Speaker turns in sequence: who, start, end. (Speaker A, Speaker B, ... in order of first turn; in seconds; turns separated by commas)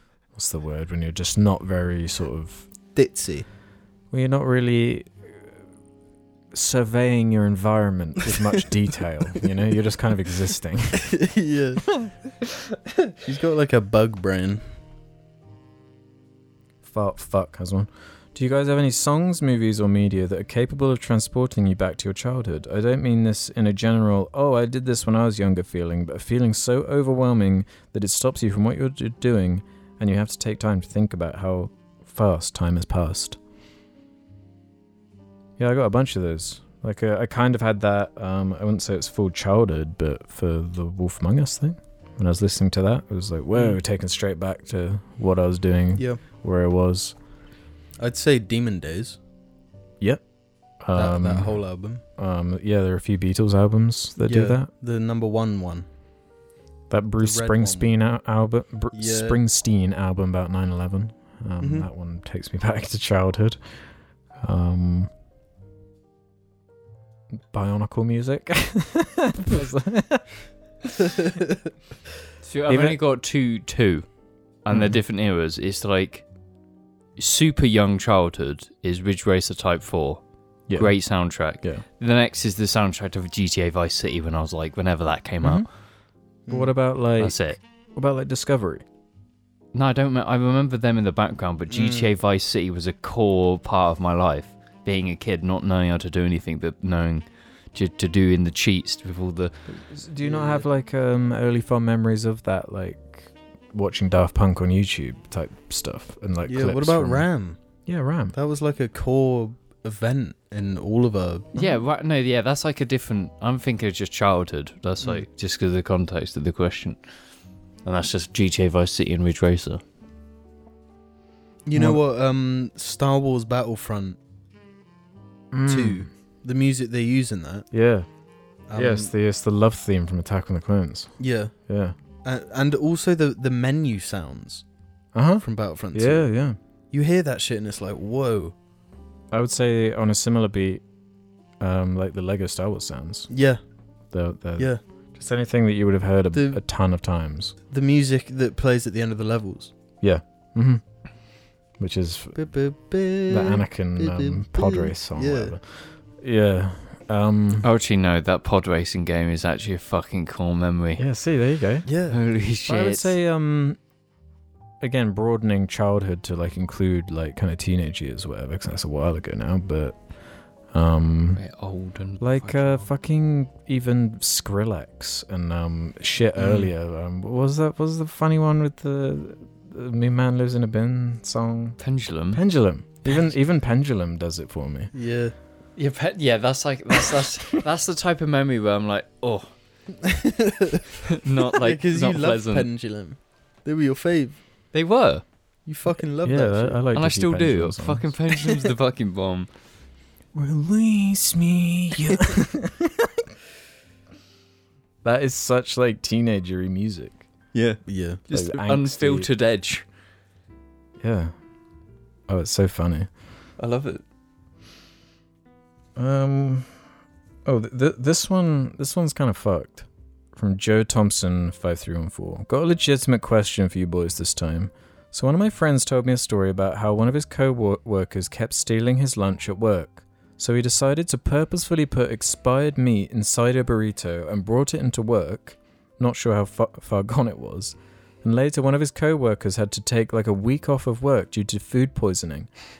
Speaker A: 0.3-2.7, Speaker B: 2.9-3.5, Speaker A: 4.1-5.5, Speaker A: 6.5-11.2, Speaker B: 11.0-12.0, Speaker B: 13.2-14.6, Speaker A: 16.8-33.4, Speaker A: 35.6-47.1, Speaker B: 48.0-49.2, Speaker A: 50.8-51.6, Speaker B: 50.9-52.0, Speaker A: 52.2-54.7, Speaker B: 54.2-55.9, Speaker A: 56.9-63.6, Speaker B: 57.2-57.9, Speaker B: 58.9-59.4, Speaker B: 61.6-61.9, Speaker A: 64.4-65.1, Speaker A: 67.4-71.1, Speaker C: 72.4-74.1, Speaker A: 72.7-73.0, Speaker C: 74.6-76.2, Speaker A: 74.7-75.0, Speaker C: 77.2-85.7, Speaker A: 80.7-81.8, Speaker A: 85.4-85.7, Speaker B: 86.5-86.7, Speaker A: 86.5-88.8, Speaker C: 87.2-87.6, Speaker C: 89.7-99.5, Speaker B: 91.7-92.1, Speaker A: 99.7-107.2, Speaker B: 100.2-100.6, Speaker B: 106.4-107.6, Speaker A: 107.9-108.3, Speaker B: 108.3-111.6, Speaker C: 111.5-117.0, Speaker C: 117.8-119.8, Speaker B: 121.7-124.2, Speaker A: 121.7-122.0, Speaker A: 125.5-126.1, Speaker B: 125.7-127.7, Speaker A: 127.7-128.1, Speaker B: 128.7-129.1, Speaker A: 128.7-131.2, Speaker B: 131.2-131.5, Speaker A: 131.7-131.9, Speaker B: 132.2-134.6, Speaker A: 135.1-136.6, Speaker B: 135.4-136.3, Speaker B: 136.9-138.5, Speaker A: 139.3-140.8, Speaker A: 141.6-143.3, Speaker B: 143.3-143.6, Speaker A: 144.1-147.5, Speaker B: 146.3-146.6, Speaker B: 147.7-149.7, Speaker A: 150.0-150.8, Speaker A: 151.8-152.4, Speaker B: 152.3-155.5, Speaker A: 153.3-157.7, Speaker C: 157.6-161.0, Speaker A: 161.0-161.9, Speaker B: 161.8-162.2, Speaker C: 162.1-163.1, Speaker A: 162.7-163.8, Speaker A: 164.8-170.0, Speaker A: 170.7-171.4, Speaker C: 171.3-172.9, Speaker A: 172.2-181.8, Speaker C: 181.8-182.4, Speaker A: 182.3-184.9, Speaker B: 184.9-185.3, Speaker C: 185.8-189.5, Speaker B: 190.0-191.0, Speaker C: 191.1-192.7, Speaker B: 191.5-194.4, Speaker C: 194.7-195.2, Speaker B: 195.7-196.8, Speaker A: 196.2-198.1, Speaker C: 196.9-199.5, Speaker A: 200.3-203.2, Speaker A: 205.0-207.2, Speaker C: 207.5-209.8, Speaker B: 207.9-208.2, Speaker A: 208.3-209.3, Speaker A: 211.0-211.3, Speaker A: 212.3-213.1, Speaker C: 213.6-214.0, Speaker A: 215.9-216.7, Speaker A: 217.4-242.5